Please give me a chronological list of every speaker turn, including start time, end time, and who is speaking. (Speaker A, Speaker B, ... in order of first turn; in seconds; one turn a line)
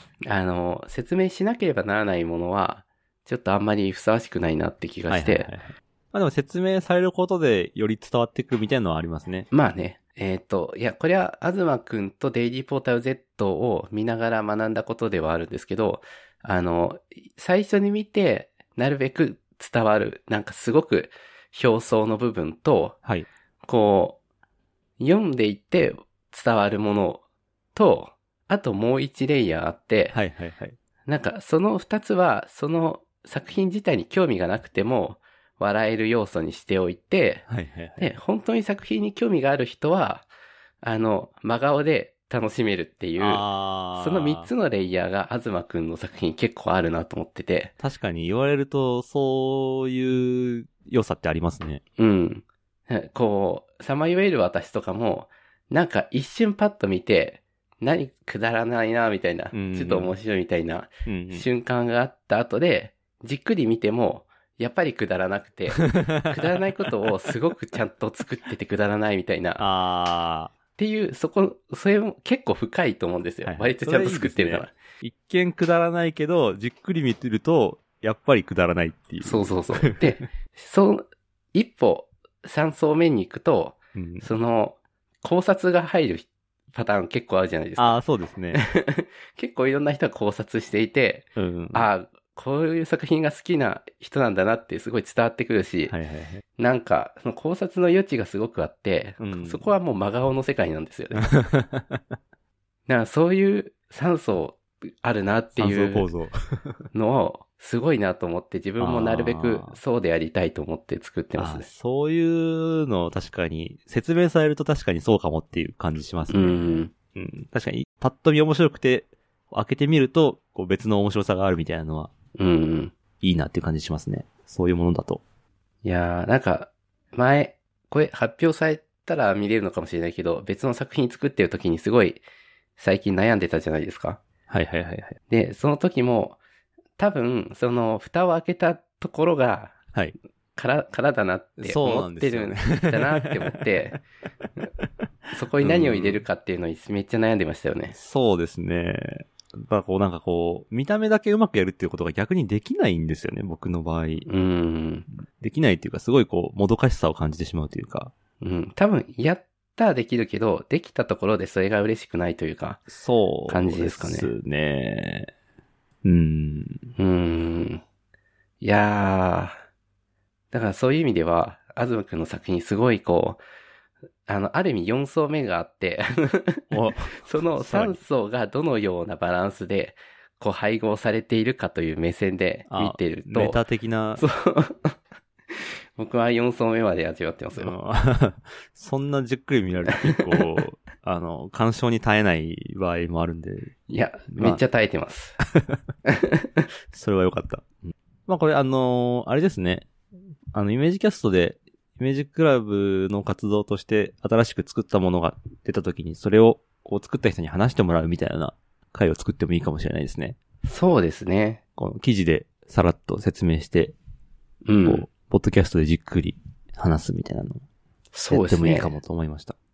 Speaker A: 0.2-5.5
Speaker B: 5.1-9.5
Speaker A: 9.5-23.0
Speaker A: 23.7-24.2
Speaker A: 25.0-27.2
Speaker A: 27.8-30.2
Speaker B: 30.1-30.8
Speaker A: 31.1-37.5
Speaker B: 37.5-38.1
Speaker A: 38.0-40.3
Speaker A: 40.8-47.7
Speaker B: 43.2-44.5
Speaker B: 47.8-51.8
Speaker A: 52.0-69.7
Speaker B: 59.5-60.1
Speaker B: 61.1-61.5
Speaker B: 65.8-66.4
Speaker B: 69.6-70.5
Speaker A: 70.8-74.7
Speaker B: 73.5-80.3
Speaker A: 79.2-88.0
Speaker B: 84.0-84.3
Speaker B: 87.8-88.6
Speaker A: 88.5-96.0
Speaker B: 91.4-91.9
Speaker B: 95.9-96.4
Speaker A: 96.6-101.3
Speaker B: 99.2-99.7
Speaker B: 101.2-102.0
Speaker A: 102.9-106.1
Speaker B: 105.6-106.8
Speaker A: 106.9-111.7
Speaker B: 108.8-109.8
Speaker B: 111.4-122.1
Speaker A: 116.3-116.9
Speaker A: 122.4-122.9
Speaker B: 123.2-125.2
Speaker A: 125.8-132.2
Speaker A: 132.8-134.2
Speaker B: 134.5-135.2
Speaker A: 135.3-136.4
Speaker A: 137.0-139.8
Speaker A: 140.6-144.0
Speaker B: 141.6-144.0
Speaker A: 145.3-147.9
Speaker B: 145.6-146.2
Speaker B: 147.9-154.3
Speaker A: 154.3-155.1
Speaker B: 155.4-158.1
Speaker A: 158.4-162.8
Speaker B: 162.9-165.3
Speaker A: 163.5-164.3
Speaker B: 166.0-166.8
Speaker A: 167.0-167.8
Speaker A: 168.6-169.6
Speaker A: 170.5-173.4
Speaker A: 174.3-183.6
Speaker B: 176.7-178.0
Speaker B: 182.7-184.2
Speaker A: 184.2-185.0
Speaker A: 185.5-187.8
Speaker B: 187.6-193.7
Speaker A: 190.1-190.4
Speaker A: 193.9-195.4
Speaker B: 194.3-194.6
Speaker A: 196.1-196.7
Speaker B: 196.9-199.9
Speaker B: 200.5-210.4
Speaker A: 210.6-211.6
Speaker B: 211.8-213.9
Speaker A: 214.7-215.1
Speaker B: 214.9-217.6
Speaker A: 218.1-218.9
Speaker B: 218.3-219.6